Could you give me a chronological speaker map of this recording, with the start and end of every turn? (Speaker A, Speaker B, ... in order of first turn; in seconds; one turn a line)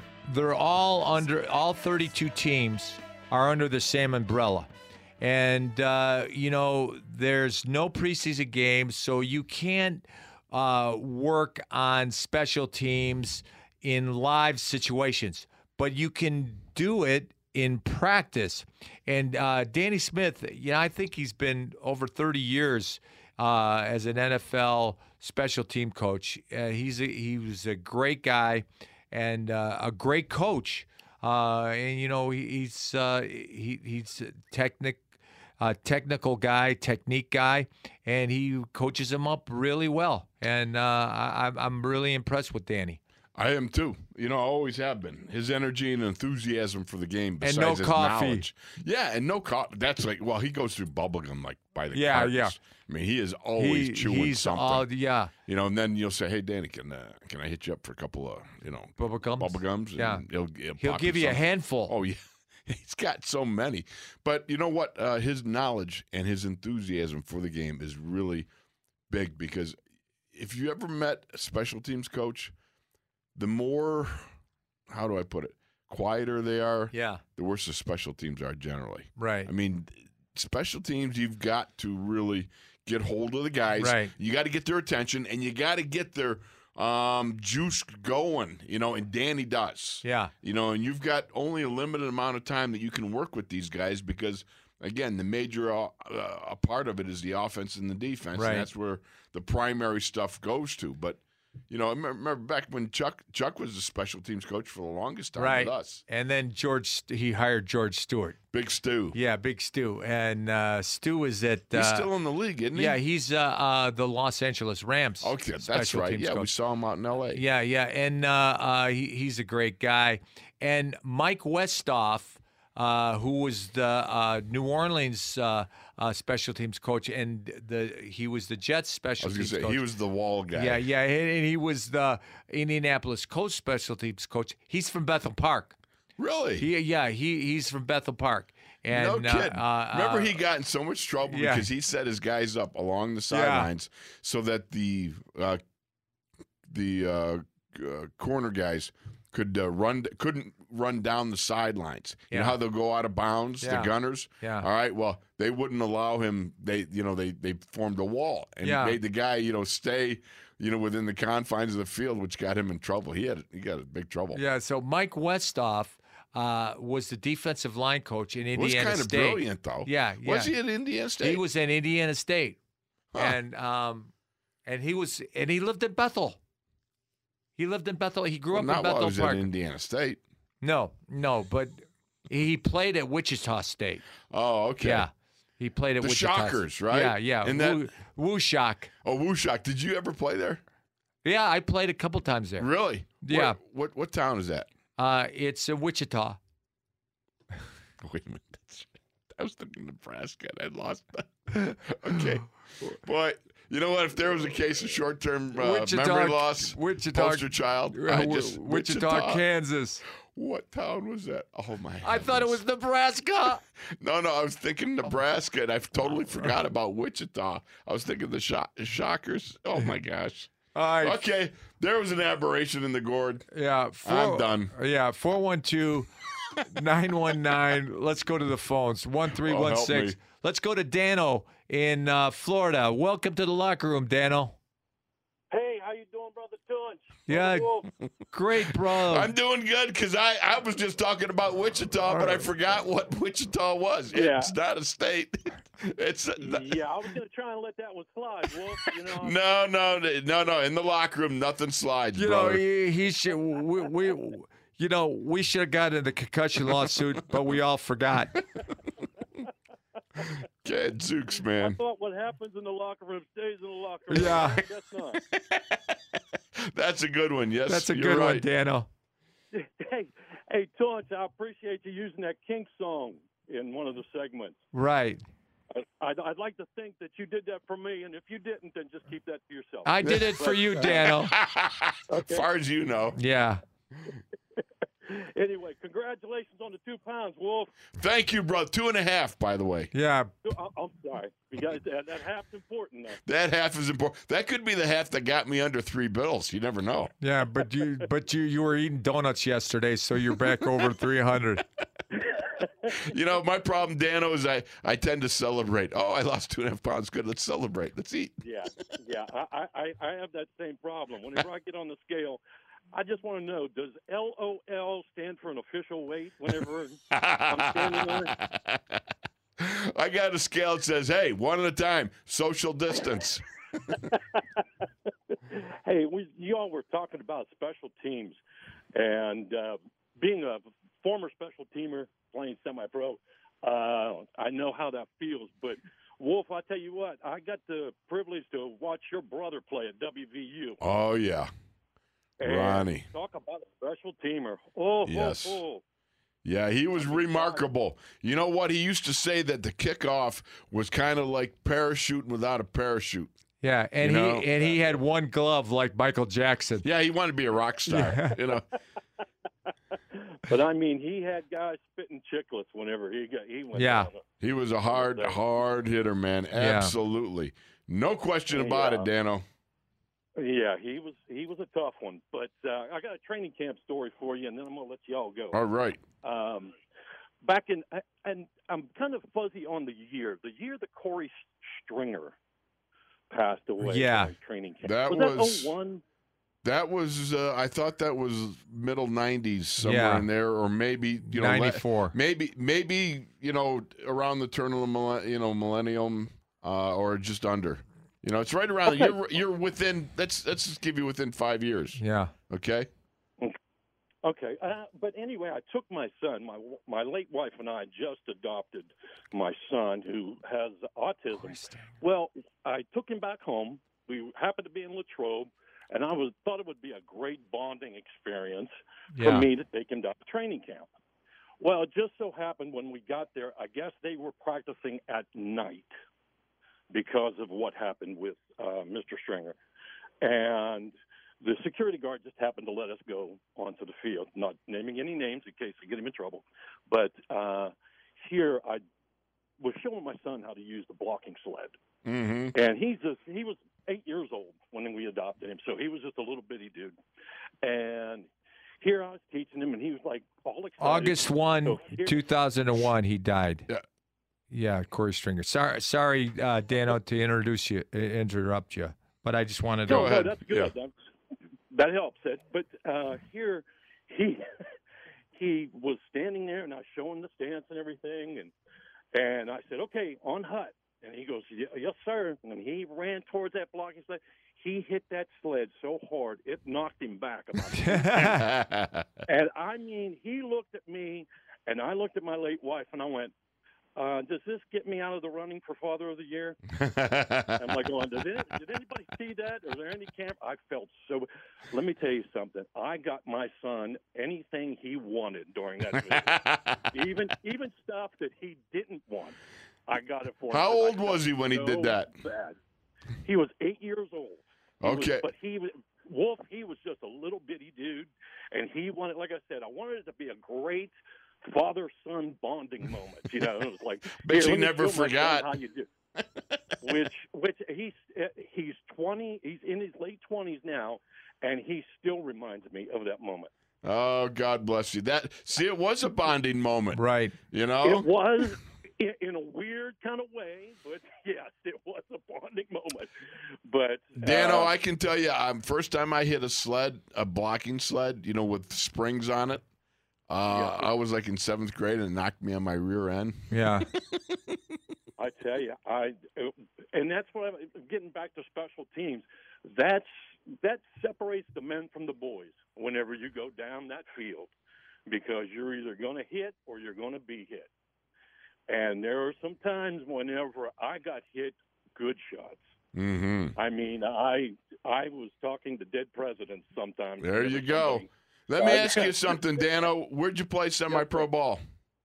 Speaker A: 0.2-35.0
Speaker A: 35.6-43.0
Speaker B: 43.3-54.9
Speaker A: 47.4-48.5
Speaker A: 51.9-52.5
Speaker A: 53.6-55.3
Speaker B: 55.5-68.5
Speaker A: 59.0-60.2
Speaker A: 60.8-61.9
Speaker B: 69.1-69.8
Speaker B: 70.3-72.5
Speaker B: 73.3-74.2
Speaker B: 74.9-106.0
Speaker A: 76.9-77.2
Speaker A: 79.2-79.5
Speaker A: 83.8-84.1
Speaker A: 90.0-90.3
Speaker A: 98.3-98.7
Speaker A: 105.4-108.4
Speaker B: 108.5-109.2
Speaker A: 109.1-112.1
Speaker B: 111.7-113.0
Speaker A: 112.7-116.5
Speaker B: 115.2-117.4
Speaker A: 117.3-129.8
Speaker B: 129.2-130.8
Speaker A: 130.5-135.8
Speaker B: 136.2-136.7
Speaker A: 136.6-140.3
Speaker B: 138.9-145.6
Speaker A: 141.3-141.7
Speaker A: 143.3-143.7
Speaker B: 146.7-164.4
Speaker A: 152.3-152.6
Speaker A: 153.6-154.7
Speaker A: 158.6-159.0
Speaker A: 164.3-170.5
Speaker B: 168.5-171.4
Speaker A: 171.2-172.6
Speaker A: 173.2-174.1
Speaker A: 174.7-176.4
Speaker A: 177.6-179.5
Speaker B: 178.5-180.2
Speaker A: 180.6-184.0
Speaker B: 184.3-185.1
Speaker A: 184.8-188.9
Speaker B: 186.0-187.9
Speaker B: 189.0-190.6
Speaker A: 191.2-192.7
Speaker B: 192.6-194.7
Speaker A: 193.2-193.6
Speaker A: 195.0-196.4
Speaker B: 198.0-209.4
Speaker A: 205.5-210.0
Speaker B: 210.2-212.6
Speaker A: 212.0-213.6
Speaker B: 213.8-223.4
Speaker A: 216.1-216.5
Speaker A: 220.7-221.2
Speaker A: 223.5-226.1
Speaker B: 224.0-224.7
Speaker A: 226.7-234.6
Speaker B: 229.3-230.2
Speaker C: 235.5-237.9
Speaker A: 237.3-237.7
Speaker A: 238.3-239.3
Speaker B: 239.0-246.8
Speaker A: 242.1-242.5
Speaker C: 244.1-244.5
Speaker C: 246.4-249.4
Speaker B: 249.0-252.6
Speaker A: 252.1-258.3
Speaker B: 260.6-261.8
Speaker C: 261.5-265.2
Speaker A: 264.1-264.6
Speaker B: 265.3-268.4
Speaker A: 267.7-268.9
Speaker C: 269.5-274.6
Speaker A: 274.7-275.2
Speaker C: 275.7-281.1
Speaker A: 279.9-281.3
Speaker B: 280.0-283.2
Speaker C: 282.1-282.5
Speaker A: 283.1-283.6
Speaker C: 285.1-287.7
Speaker B: 287.9-289.9
Speaker A: 289.9-290.3
Speaker C: 290.4-293.2
Speaker B: 293.2-297.1
Speaker A: 297.2-301.6
Speaker C: 302.3-302.9
Speaker B: 303.0-308.4
Speaker C: 308.4-312.4
Speaker C: 312.9-317.0
Speaker B: 317.1-319.0
Speaker C: 317.5-318.3
Speaker B: 319.6-324.0
Speaker C: 324.1-324.4
Speaker C: 325.5-328.4
Speaker C: 328.9-340.8
Speaker B: 340.8-341.5
Speaker C: 342.4-345.8
Speaker B: 342.4-343.1
Speaker B: 345.0-345.6
Speaker B: 346.4-353.3
Speaker C: 346.9-347.6
Speaker A: 353.6-356.8
Speaker B: 354.0-354.6
Speaker C: 354.6-355.0
Speaker B: 356.8-358.6
Speaker A: 357.9-358.4
Speaker C: 360.1-364.2
Speaker A: 363.7-364.1
Speaker B: 364.4-369.4
Speaker C: 364.9-365.4
Speaker A: 366.5-366.9
Speaker C: 368.5-369.1
Speaker C: 370.4-375.6
Speaker B: 375.5-376.0
Speaker C: 376.2-376.8
Speaker C: 377.4-382.4
Speaker C: 383.3-386.0
Speaker A: 383.8-384.3
Speaker B: 384.8-385.7
Speaker B: 386.6-402.0
Speaker A: 389.8-390.3
Speaker A: 391.3-392.1
Speaker A: 402.0-402.3
Speaker B: 402.5-402.9
Speaker C: 404.2-420.9
Speaker A: 411.4-411.9
Speaker A: 419.1-419.5
Speaker C: 421.6-425.9
Speaker C: 426.9-429.6
Speaker C: 430.2-438.8
Speaker C: 439.6-441.8
Speaker B: 442.0-442.6
Speaker C: 442.5-446.9
Speaker C: 447.6-448.3
Speaker C: 448.8-452.2
Speaker A: 450.8-453.7
Speaker A: 454.5-460.2
Speaker C: 459.9-460.9
Speaker B: 459.9-460.7
Speaker C: 461.7-464.4
Speaker C: 465.3-468.5
Speaker C: 469.1-478.2
Speaker A: 477.7-478.4
Speaker B: 478.1-479.1
Speaker C: 479.3-483.3
Speaker C: 483.9-486.6
Speaker B: 486.7-487.8
Speaker C: 487.6-496.4
Speaker B: 495.9-496.9
Speaker C: 496.9-502.6
Speaker B: 500.5-502.1
Speaker C: 503.2-510.9
Speaker B: 504.8-505.2
Speaker C: 511.5-515.9
Speaker B: 514.2-515.5
Speaker C: 516.8-523.5
Speaker B: 523.8-528.1
Speaker A: 526.9-527.4
Speaker C: 527.8-533.1
Speaker C: 533.6-534.7
Speaker B: 534.2-539.6
Speaker B: 540.3-543.5
Speaker C: 540.5-540.9
Speaker A: 543.5-543.9
Speaker B: 544.1-544.5
Speaker C: 545.2-554.5
Speaker C: 555.1-557.7
Speaker C: 558.7-562.7
Speaker B: 562.9-563.5
Speaker C: 563.5-569.5
Speaker B: 567.2-571.6
Speaker C: 570.9-571.3